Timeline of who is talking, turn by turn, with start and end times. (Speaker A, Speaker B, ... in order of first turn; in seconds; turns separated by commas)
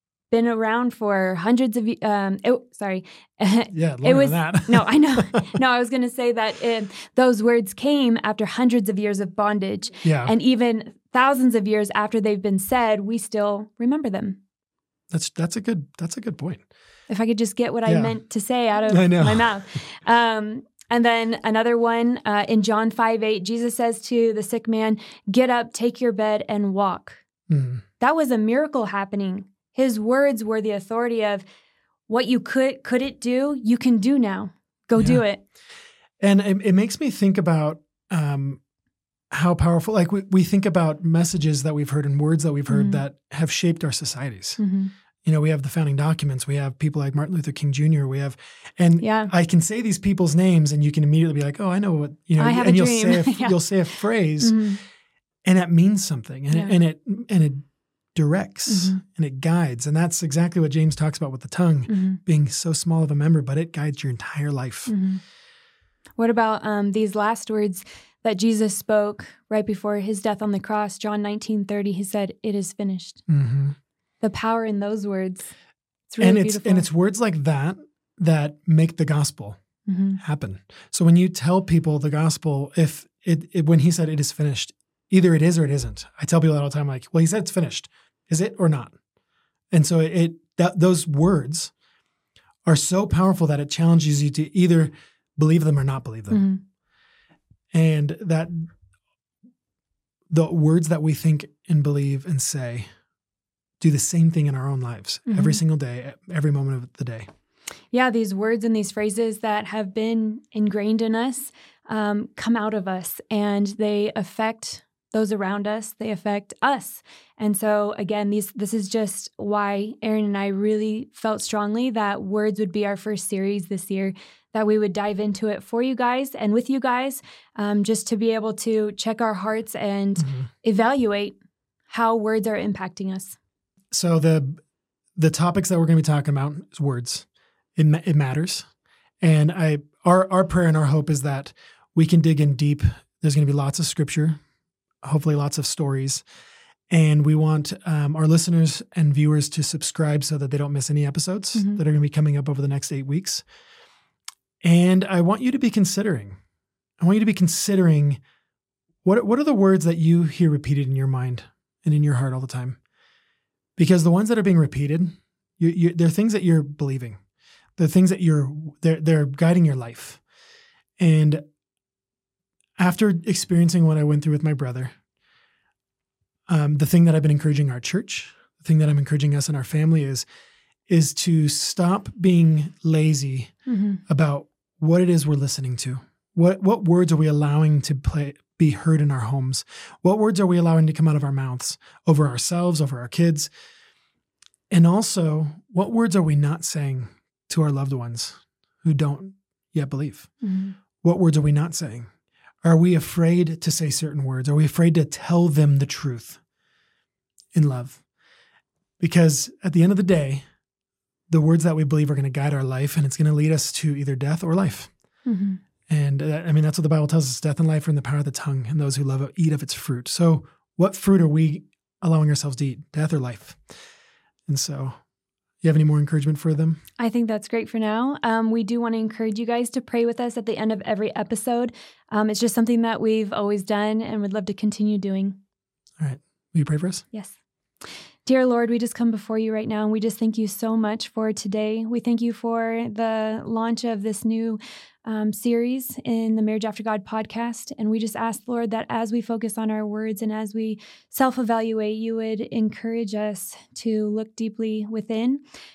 Speaker A: 0.3-14.4, Speaker B: 3.7-5.6, Speaker B: 10.0-10.3, Speaker B: 15.1-16.6, Speaker A: 17.1-27.2, Speaker B: 17.9-18.1, Speaker B: 18.9-19.5, Speaker B: 27.5-27.8, Speaker A: 28.0-31.4, Speaker A: 32.1-35.4, Speaker B: 35.0-35.2, Speaker B: 36.2-38.6, Speaker B: 39.3-44.6, Speaker A: 42.7-43.0, Speaker A: 44.6-44.9, Speaker B: 45.2-54.6, Speaker A: 49.0-49.3, Speaker A: 52.4-53.6, Speaker A: 54.4-54.8, Speaker B: 55.4-64.9, Speaker A: 58.7-59.0, Speaker A: 61.9-62.2, Speaker A: 64.9-65.2, Speaker A: 66.2-73.2, Speaker B: 73.3-73.8, Speaker A: 74.2-75.5, Speaker A: 76.1-76.8, Speaker B: 76.2-79.6, Speaker A: 79.9-80.2, Speaker B: 80.2-88.9, Speaker B: 89.7-91.7, Speaker B: 92.7-96.5, Speaker A: 96.3-96.6, Speaker B: 97.7-98.7, Speaker B: 100.3-102.9, Speaker B: 103.8-107.3, Speaker A: 105.3-105.6, Speaker A: 107.9-131.3, Speaker B: 130.2-130.5, Speaker A: 131.9-133.4, Speaker B: 133.9-134.6, Speaker B: 135.2-138.7, Speaker B: 139.2-144.4, Speaker B: 145.0-146.2, Speaker B: 146.9-153.4, Speaker A: 151.5-151.8, Speaker B: 154.6-156.4, Speaker B: 157.0-158.2, Speaker B: 159.0-162.8, Speaker B: 163.8-167.2, Speaker B: 167.8-170.2, Speaker B: 171.0-171.4, Speaker B: 172.8-174.9, Speaker B: 176.5-180.2, Speaker B: 180.9-183.5, Speaker A: 183.7-184.0, Speaker B: 184.1-193.5, Speaker B: 194.7-200.3, Speaker A: 200.4-200.8, Speaker B: 201.0-202.1, Speaker B: 202.6-206.4, Speaker B: 207.5-208.0, Speaker B: 209.0-210.5, Speaker B: 211.3-214.9, Speaker A: 215.2-215.6, Speaker B: 215.9-223.6, Speaker B: 224.5-225.0, Speaker B: 225.6-226.8, Speaker A: 227.0-235.4, Speaker B: 236.0-237.0, Speaker A: 238.2-255.4